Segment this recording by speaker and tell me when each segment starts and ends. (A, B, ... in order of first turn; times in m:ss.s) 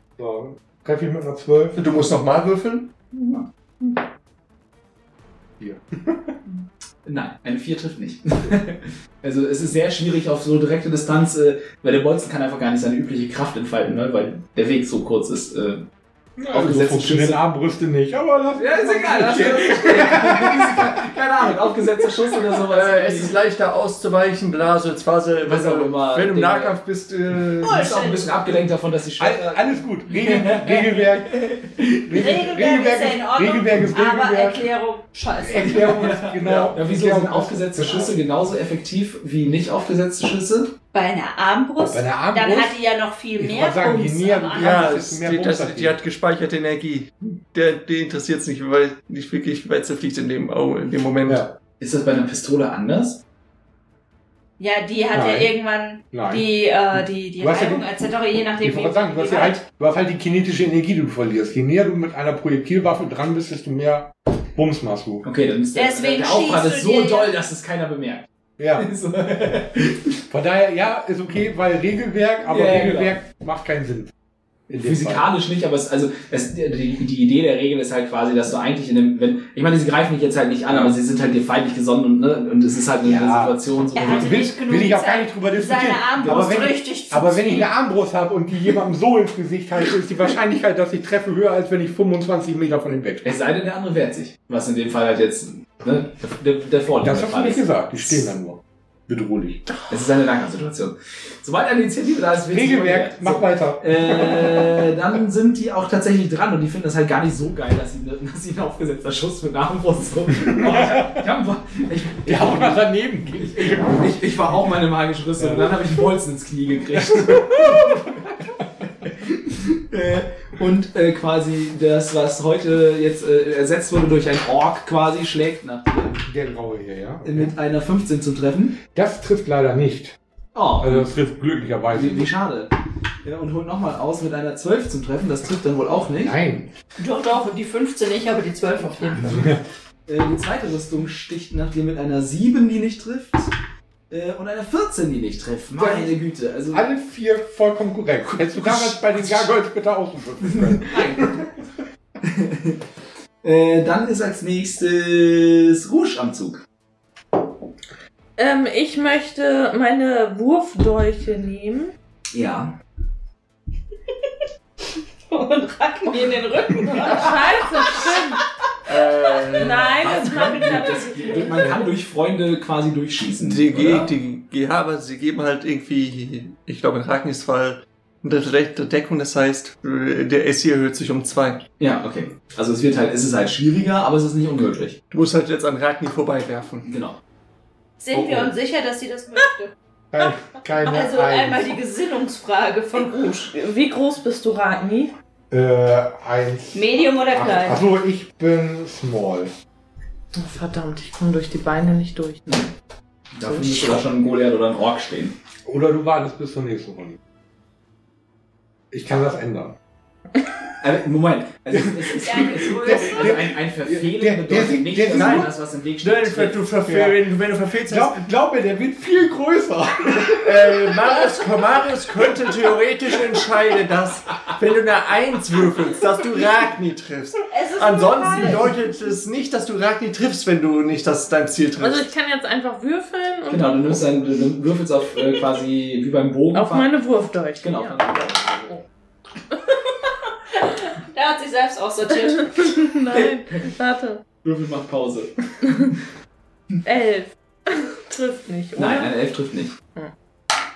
0:00.2-0:01.8 A
0:01.8-0:03.0 B
0:05.6-0:06.3 A
0:07.0-0:15.9 C
0:16.4-0:21.0 A
0:16.5-0:17.4 C
0:18.6-0:23.4 C
0:22.7-0:27.8 B
0:25.4-0:26.8 C
0:27.6-0:28.4 D
0:27.6-0:32.0 C
0:29.2-0:34.6 A
0:32.1-0:36.0 D
0:35.4-0:38.2 A
0:35.6-0:40.7 C
0:36.4-0:36.8 B
0:40.9-0:44.9 D
0:41.8-0:42.8 A
0:43.4-0:46.0 A
0:44.5-0:51.5 B
0:51.3-0:51.5 A
0:51.8-0:53.2 C
0:54.6-0:59.6 D
0:55.1-0:55.5 A
0:56.1-0:56.4 A
0:57.4-0:57.9 A
0:58.6-1:05.2 A
1:05.2-1:10.2 C
1:05.7-1:07.3 D
1:08.6-1:08.9 A
1:10.3-1:14.1 A
1:12.5-1:13.2 C
1:14.7-1:15.3 A
1:14.8-1:24.4 C
1:20.7-1:21.0 A
1:23.0-1:33.4 A
1:24.0-1:27.7 D
1:33.2-1:37.7 C
1:37.0-1:39.6 A
1:39.9-2:06.2 C
1:42.5-1:44.8 A
1:50.4-1:51.3 A
1:52.2-1:54.1 A
1:55.4-1:56.1 A
1:56.9-1:58.1 A
2:06.2-2:07.6 A
2:07.2-2:08.8 C
2:08.9-2:10.2 A
2:10.6-2:11.1 C
2:10.8-2:12.3 A
2:11.9-2:16.4 C
2:16.2-2:16.7 A
2:17.0-2:19.5 D
2:19.3-2:19.6 A
2:20.1-2:23.5 C
2:24.1-2:26.9 C
2:25.8-2:26.2 A
2:26.7-2:31.4 A
2:28.3-2:29.5 C
2:30.4-2:31.4 C
2:32.2-2:32.8 C
2:33.4-2:36.6 C
2:38.4-2:41.9 E
2:42.3-2:42.8 C
2:45.3-2:48.1 D
2:47.0-2:48.4 E
2:48.9-2:50.2 B
2:49.5-2:51.9 E
2:49.6-2:54.1 C
2:51.4-2:51.8 A
2:53.4-3:01.6 B
3:01.8-3:05.0 C
3:05.1-3:06.9 B
3:06.8-3:07.2 C
3:08.0-3:09.7 D
3:08.1-3:08.5 A
3:08.2-3:08.4 B
3:10.1-3:11.8 A
3:10.9-3:13.5 D
3:13.5-3:15.1 E
3:15.5-3:19.5 A
3:16.7-3:17.8 D
3:20.3-3:22.4 E
3:22.5-3:22.7 C
3:23.3-3:25.4 C
3:23.5-3:23.9 E
3:25.6-3:27.2 A
3:28.9-3:29.8 A
3:30.8-3:36.6 C
3:31.7-3:35.5 A
3:32.2-3:33.4 D
3:35.0-3:38.2 B
3:36.9-3:37.2 A
3:37.9-3:41.1 A
3:40.3-3:52.1 B
3:47.5-3:48.7 D
3:51.8-3:53.9 E
3:53.5-3:57.0 C
3:56.5-3:58.8 E
3:57.6-3:58.8 C
3:59.5-3:59.8 E
4:01.1-4:02.7 D
4:02.2-4:04.2 E
4:03.1-4:03.7 C
4:04.4-4:05.4 C
4:05.6-4:05.9 E
4:06.8-4:09.1 E
4:08.8-4:09.8 C